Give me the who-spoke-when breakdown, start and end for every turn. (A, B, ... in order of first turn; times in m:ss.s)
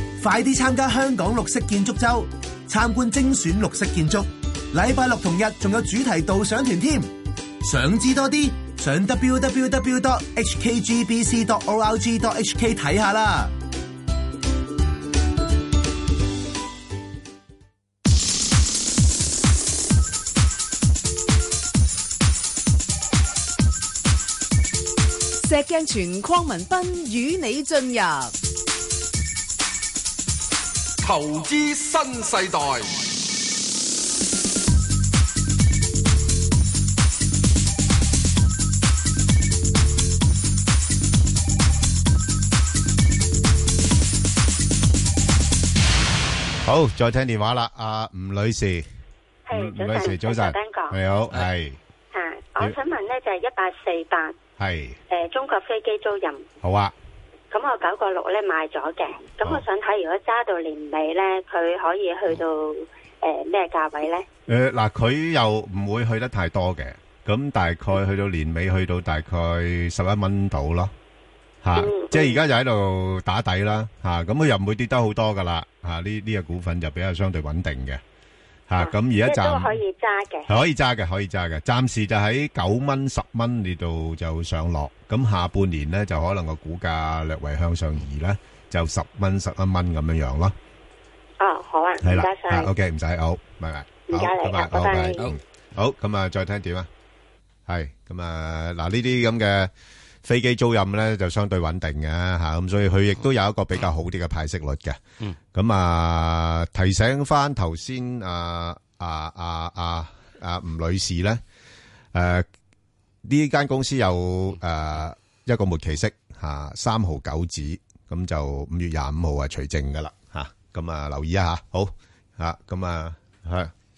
0:00.2-0:13.5 A
0:25.5-0:28.3 B
0:31.0-0:33.0 C
0:46.6-0:48.9 D
0:49.5-0:51.0 E
0:49.5-0:51.8 D
0:52.1-0:54.4 E
0:54.6-0:55.0 D
0:55.1-0:56.5 E
0:56.6-0:56.9 D
0:57.5-1:04.2 E
1:04.5-1:10.9 D
1:11.6-1:18.0 D
1:11.8-1:12.4 E
1:18.7-1:19.8 D
1:18.8-1:20.5 E
1:20.5-1:30.5 D
1:31.4-1:32.7 E
1:32.0-1:36.9 D
1:34.1-1:35.2 E
1:37.7-1:39.7 D
1:40.2-1:45.0 D
1:45.5-1:51.4 D
1:52.1-1:52.5 D
1:53.2-2:03.7 D